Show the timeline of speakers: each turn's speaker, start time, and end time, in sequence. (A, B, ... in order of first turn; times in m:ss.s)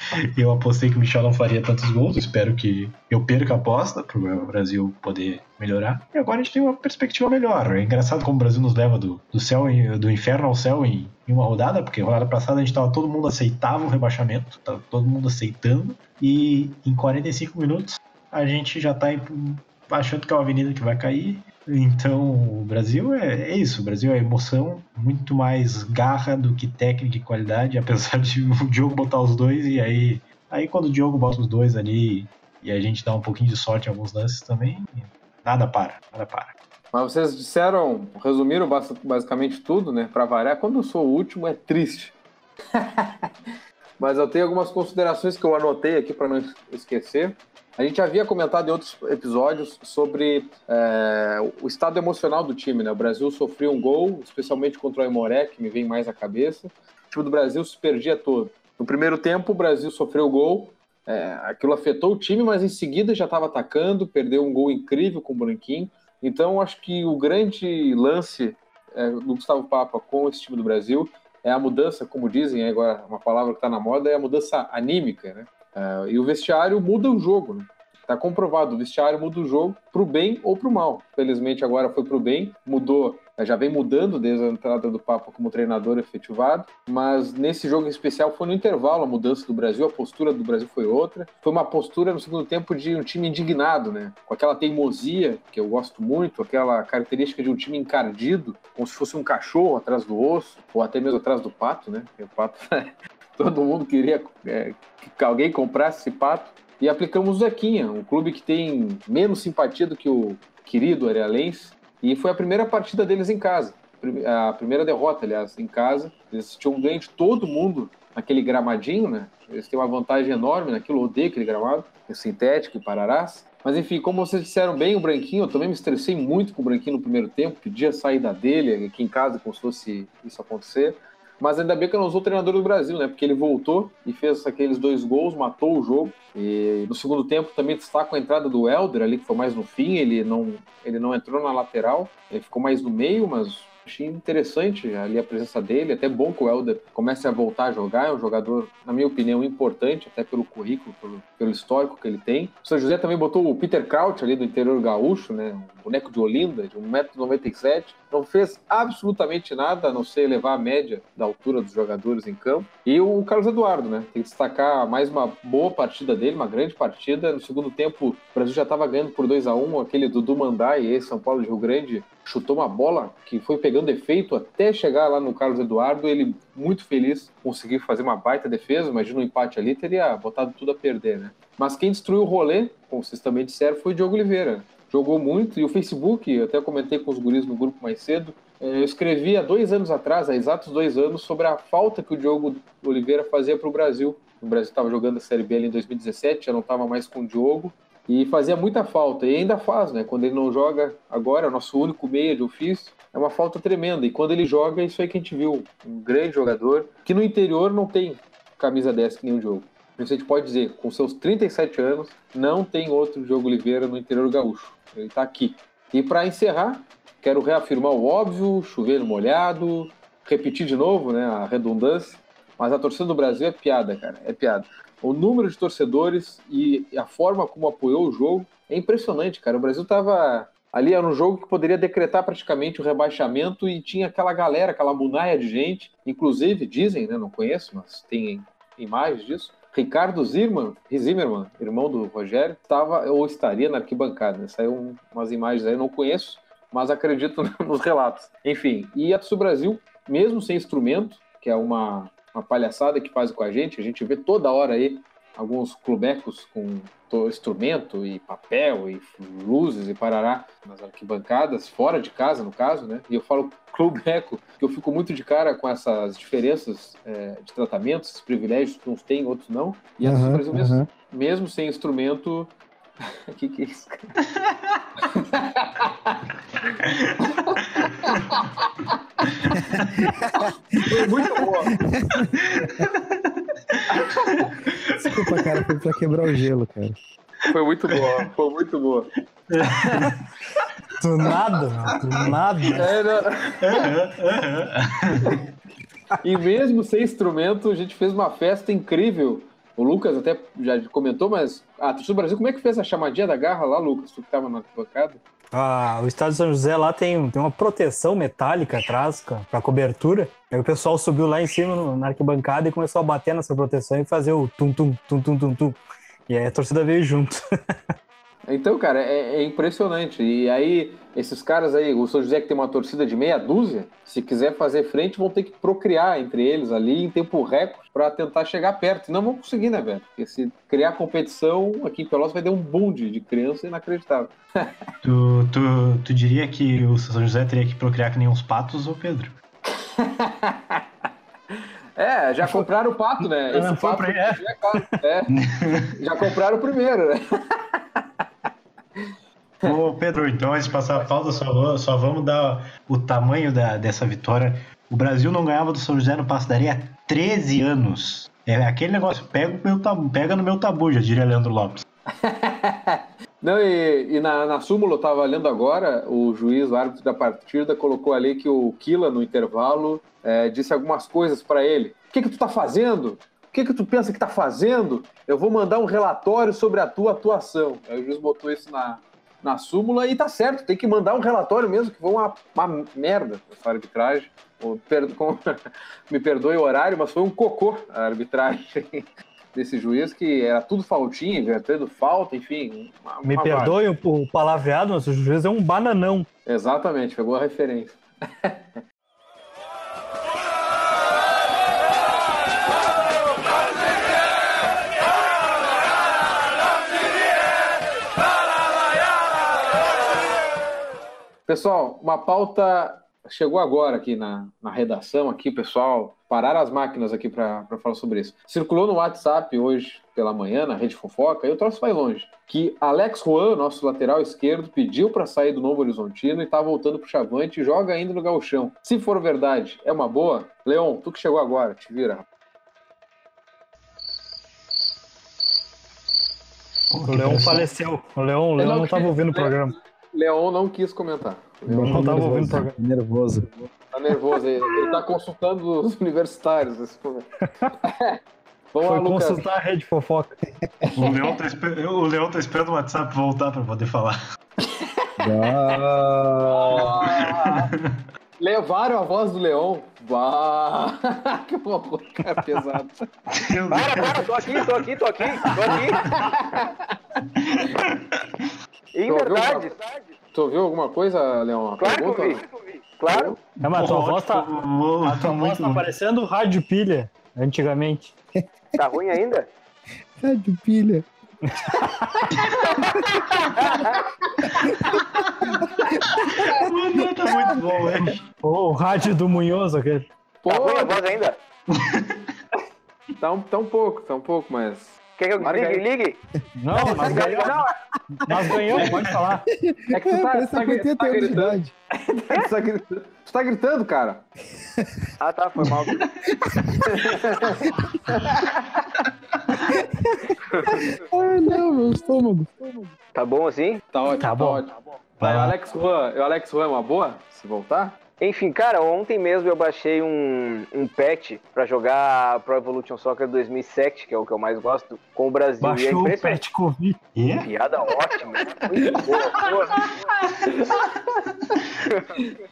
0:00.3-0:36.5 A
0:36.9-0:42.2 B
0:42.7-0:43.3 B
0:44.0-4:32.6 B
4:30.0-4:30.9 C
4:33.1-4:34.2 B
4:35.0-4:39.4 B
4:39.5-4:41.0 C
4:40.8-4:41.8 B
4:41.8-4:42.9 C
4:42.6-4:44.8 A
4:43.9-4:44.5 B
4:45.0-4:47.0 C
4:47.5-4:49.1 B
4:49.5-4:50.2 A
4:49.6-4:50.1 B
4:51.0-4:53.0 D
4:52.7-4:53.9 B
4:53.6-4:55.4 A
4:56.2-5:05.2 B
5:05.5-5:17.4 D
5:18.5-5:34.7 B
5:35.0-5:39.4 A
5:39.7-5:40.8 B
5:41.5-5:45.4 B
5:43.5-5:45.0 D
5:45.3-5:45.9 A
5:46.0-5:48.0 B
5:49.6-6:01.8 A
6:02.2-6:25.4 B
6:26.1-6:33.8 B
6:33.2-6:36.3 D
6:36.4-6:38.8 B
6:51.5-7:12.2 B
7:16.9-7:17.7 A
7:17.0-7:19.7 D
7:18.6-7:22.3 B
7:21.6-7:23.7 C
7:21.8-7:22.8 D
7:23.9-7:27.3 B
7:27.4-7:27.7 D
7:27.8-7:28.2 B
7:28.7-7:29.5 B
7:28.8-7:30.4 D
7:31.0-7:34.2 A
7:34.6-7:35.1 B
7:35.2-7:37.0 C
7:36.4-7:37.7 B
7:37.0-7:37.9 A
7:38.4-7:43.0 B
7:43.3-7:44.7 A
7:43.7-7:46.0 E
7:45.8-7:46.7 B
7:47.6-7:47.9 A
7:48.9-7:50.1 E
7:49.1-7:49.7 B
7:50.3-7:52.4 B
7:51.8-7:53.4 E
7:53.1-7:53.4 B
7:53.6-7:55.9 A
7:53.6-7:54.5 D
7:55.0-7:58.2 D
7:58.7-7:59.5 E
8:00.2-8:01.1 C
8:01.5-8:02.3 D
8:02.4-8:03.4 A
8:03.6-8:04.0 E
8:04.5-8:05.7 C
8:05.2-8:05.6 A
8:06.4-8:08.2 A
8:08.0-8:10.0 D
8:10.4-8:11.0 B
8:10.5-8:11.4 E
8:11.8-8:12.2 A
8:13.2-8:15.9 B
8:15.2-8:16.2 E
8:16.6-8:17.6 D
8:16.8-8:17.5 E
8:16.8-8:17.7 B
8:18.2-8:19.4 D
8:18.5-8:19.2 B
8:19.5-8:21.7 C
8:19.9-8:24.3 B
8:25.2-8:26.0 E
8:26.5-8:27.1 C
8:26.9-8:29.0 B
8:29.7-8:32.9 C
8:33.1-8:33.8 E
8:33.9-8:38.0 B
8:34.0-8:34.7 D
8:35.2-8:35.5 D
8:38.2-8:46.4 E
8:45.6-8:47.0 D
8:47.1-8:47.5 A
8:47.4-8:49.9 E
8:50.4-8:50.8 B
8:51.9-8:52.2 E